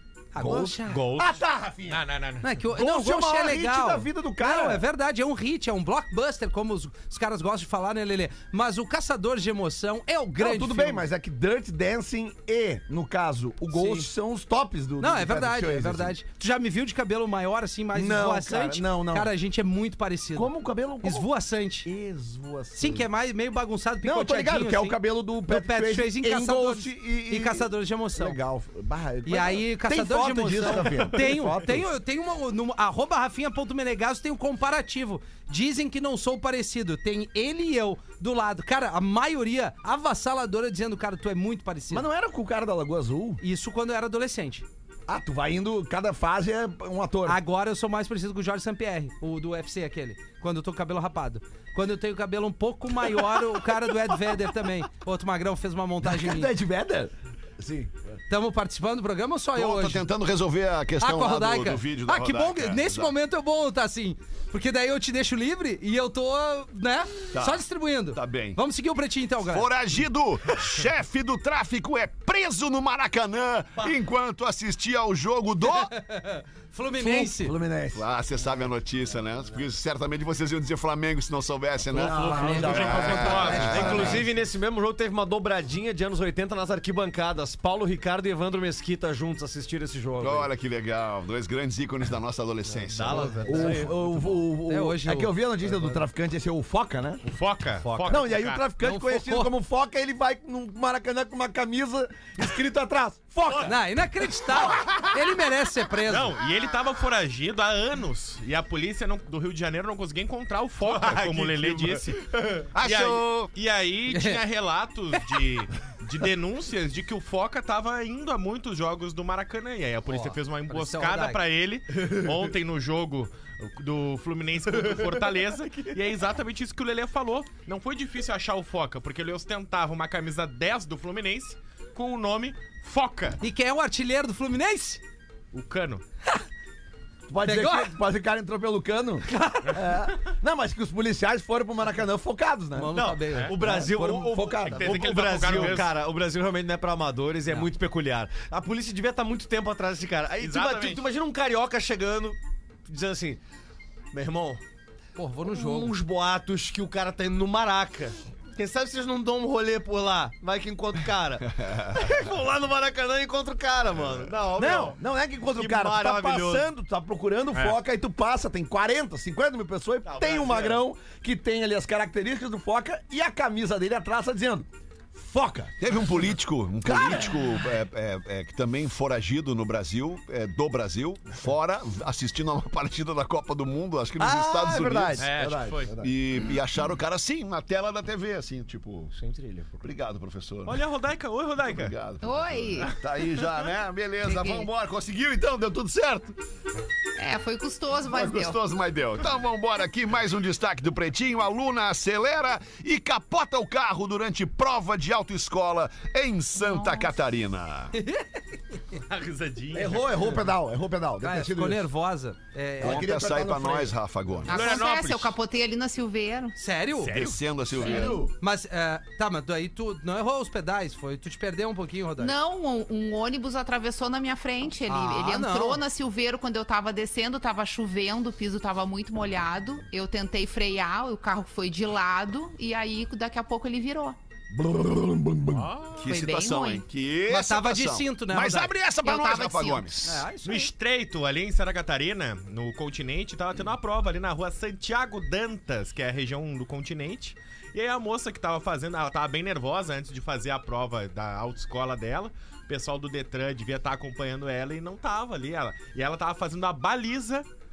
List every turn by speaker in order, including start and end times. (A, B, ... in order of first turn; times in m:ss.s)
0:00.3-0:00.9 A
0:00.4-0:02.0 B
0:00.9-0:02.4 C
0:02.4-0:11.0 A
0:02.7-0:04.8 B
0:10.4-0:16.2 B
0:13.7-0:14.1 A
0:15.0-0:21.9 A
0:17.9-0:19.3 B
0:20.3-0:21.3 B
0:21.8-0:23.1 B
0:22.7-0:28.4 A
0:24.0-0:31.9 B
0:29.2-0:42.0 A
0:41.9-0:43.4 B
0:43.4-0:44.6 A
0:45.1-0:47.4 B
0:47.2-0:56.5 A
0:56.0-0:57.9 B
0:58.3-1:00.0 A
0:59.5-1:03.1 D
1:01.0-1:09.7 A
1:07.3-1:08.6 D
1:09.4-1:15.9 D
1:15.7-1:17.5 A
1:17.0-1:18.0 B
1:17.9-1:24.2 D
1:21.9-1:24.2 B
1:22.0-1:24.2 C
1:22.1-1:24.0 A
1:23.5-1:30.5 E
1:30.2-1:33.4 D
1:32.7-1:33.9 E
1:33.1-1:33.7 A
1:33.4-1:37.2 B
1:34.6-1:35.9 A
1:37.2-1:38.6 C
1:37.8-1:38.2 E
1:38.1-1:43.8 B
1:38.8-1:39.5 A
1:43.6-1:46.4 A
1:46.0-2:13.4 C
1:50.8-1:52.1 D
1:52.7-1:53.5 D
1:54.1-1:54.4 A
2:00.1-2:01.4 A
2:13.4-2:15.0 A
2:15.5-2:16.0 C
2:17.3-2:23.0 B
2:17.4-2:17.9 A
2:19.2-2:19.8 A
2:22.7-2:23.5 A
2:22.9-2:33.4 E
2:23.6-2:25.7 B
2:24.4-2:25.9 C
2:30.4-2:31.0 C
2:34.1-2:34.6 E
2:35.2-2:35.9 A
2:35.4-2:45.0 E
2:44.5-2:55.8 B
2:45.5-2:46.7 E
2:47.5-2:47.8 C
2:50.1-2:50.8 E
2:55.8-3:05.3 D
2:56.8-2:57.5 B
3:04.2-3:06.1 B
3:05.2-3:05.9 C
3:06.0-3:09.1 D
3:09.2-3:09.6 E
3:09.8-3:10.8 D
3:10.6-3:11.9 C
3:11.6-3:16.4 D
3:12.2-3:12.9 F
3:14.2-3:14.7 F
3:17.2-3:18.6 F
3:18.1-3:28.0 D
3:26.6-3:27.1 F
3:27.9-3:28.4 A
3:28.9-3:30.3 C
3:29.7-3:31.8 B
3:31.2-3:33.1 A
3:32.8-3:34.0 B
3:32.8-3:34.6 D
3:34.4-3:35.4 C
3:34.4-3:36.6 F
3:36.6-3:37.2 A
3:37.0-3:37.4 C
3:37.1-3:38.2 D
3:37.8-3:38.3 B
3:37.8-3:42.3 A
3:42.2-3:54.2 F
3:44.9-3:45.8 A
3:54.5-3:55.7 B
3:55.5-3:56.0 C
3:55.9-4:00.2 D
3:56.0-3:56.8 F
3:57.3-3:58.7 A
3:59.0-4:00.0 F
4:00.0-4:00.7 A
4:00.4-4:17.4 C